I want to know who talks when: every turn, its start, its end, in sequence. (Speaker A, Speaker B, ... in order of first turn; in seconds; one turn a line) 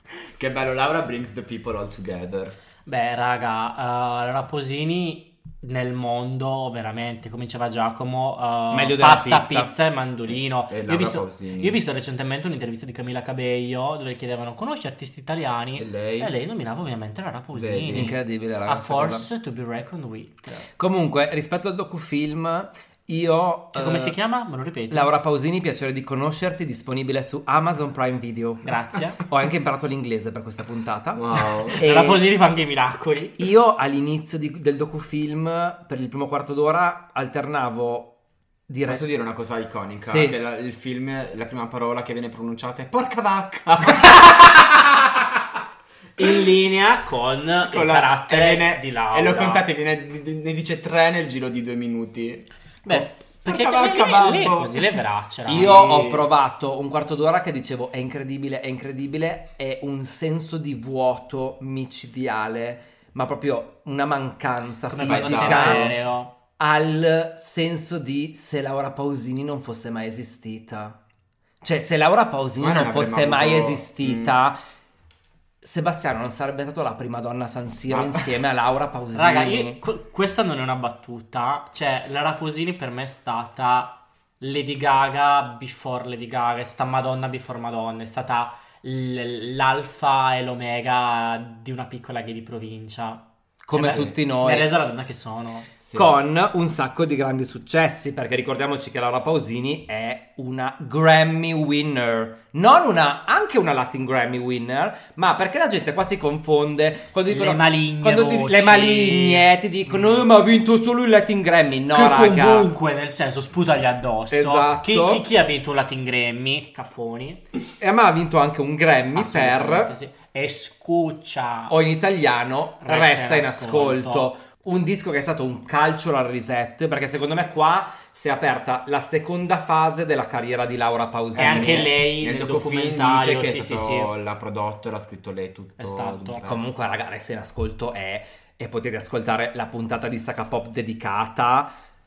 Speaker A: 0.3-2.5
Speaker B: 2.9-20.6
Speaker C: 8.7-9.7
Speaker A: 10.7-11.8
Speaker A: 15.8-16.3
Speaker A: 17.5-18.1
Speaker C: 17.9-19.3
Speaker C: 20.8-24.2
Speaker B: 23.7-25.1
Speaker C: 24.9-32.2
Speaker B: 28.6-29.2
Speaker A: 31.1-31.8
Speaker B: 31.8-33.4
Speaker C: 33.4-38.1
Speaker C: 38.7-39.0
Speaker A: 38.9-44.5
Speaker C: 40.0-40.4
Speaker B: 46.2-49.6
Speaker A: 47.7-54.9
Speaker B: 52.8-55.8
Speaker C: 55.5-65.9
Speaker A: 55.5-56.2
Speaker B: 64.9-66.3
Speaker A: 65.0-66.0
Speaker C: 66.6-71.0
Speaker C: 71.6-74.6
Speaker A: 72.6-74.3
Speaker C: 75.6-79.8
Speaker A: 77.9-78.2
Speaker B: 79.1-95.7
Speaker C: 93.7-94.7
Speaker A: 93.8-94.1
Speaker A: 95.8-96.1
Speaker C: 95.9-112.7
Speaker B: 107.3-109.5
Speaker B: 111.9-117.4
Speaker C: 114.3-115.2
Speaker C: 117.8-119.9
Speaker B: 119.1-121.7
Speaker C: 121.7-131.9
Speaker B: 122.8-124.3
Speaker A: 131.3-136.6
Speaker B: 131.3-134.1
Speaker B: 135.8-136.4
Speaker C: 136.4-141.7